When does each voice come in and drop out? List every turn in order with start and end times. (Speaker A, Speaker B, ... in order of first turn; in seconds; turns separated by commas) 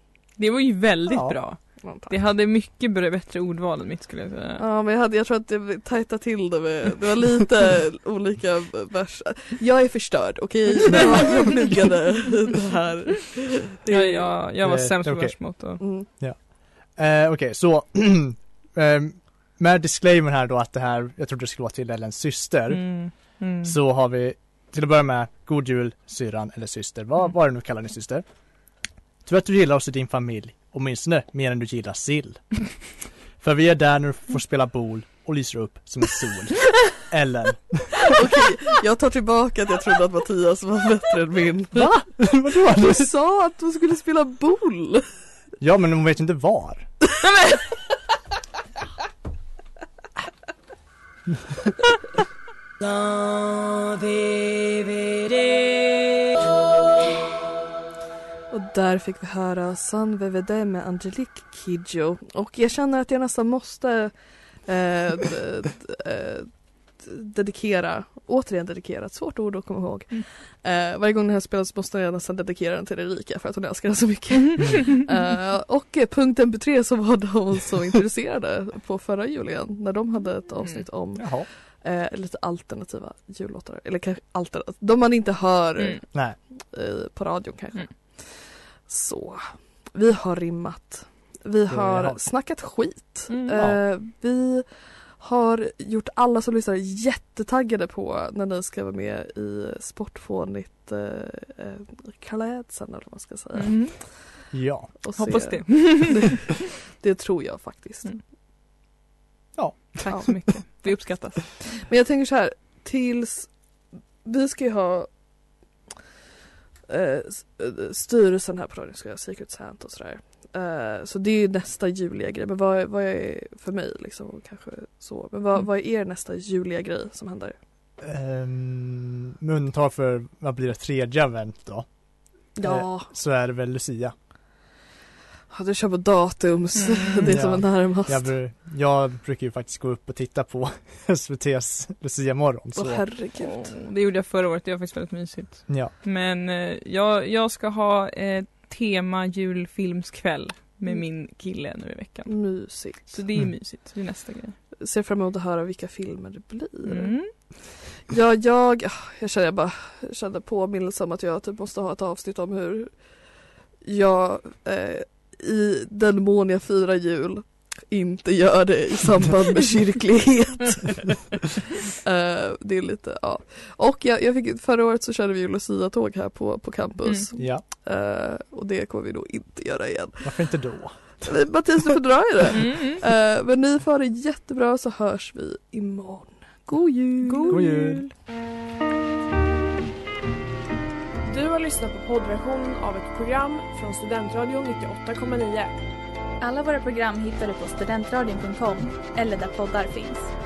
Speaker A: 0.4-4.6, Speaker B: 1.1-1.4, Speaker C: 1.8-2.1, Speaker C: 4.6-14.3, Speaker A: 13.9-15.8, Speaker B: 14.6-28.2, Speaker C: 15.8-16.1, Speaker A: 22.7-23.8, Speaker B: 29.2-38.1, Speaker C: 38.1-45.1, Speaker B: 41.7-43.1, Speaker B: 45.6-46.9, Speaker C: 58.5-104.2, Speaker B: 81.2-81.5, Speaker B: 91.7-92.2, Speaker A: 93.3-93.6, Speaker A: 103.5-104.5, Speaker B: 104.5-105.0, Speaker C: 105.0-108.1, Speaker A: 105.2-106.4, Speaker B: 109.6-110.4, Speaker A: 110.0-111.4, Speaker C: 111.6-113.6, Speaker C: 114.2-115.2, Speaker C: 116.9-127.5, Speaker B: 128.0-134.1, Speaker C: 132.5-133.1, Speaker C: 135.5-138.3, Speaker A: 136.8-137.4, Speaker B: 137.3-143.1, Speaker C: 142.7-143.7, Speaker A: 143.3-154.6, Speaker B: 145.7-145.9, Speaker C: 152.3-153.2, Speaker C: 154.8-163.3, Speaker A: 156.9-157.3, Speaker C: 163.8-171.1, Speaker C: 171.9-187.6, Speaker B: 177.4-177.6, Speaker B: 180.2-181.7, Speaker A: 182.6-183.0, Speaker A: 187.2-188.1, Speaker B: 187.5-188.1, Speaker D: 191.2-195.8, Speaker E: 196.4-200.3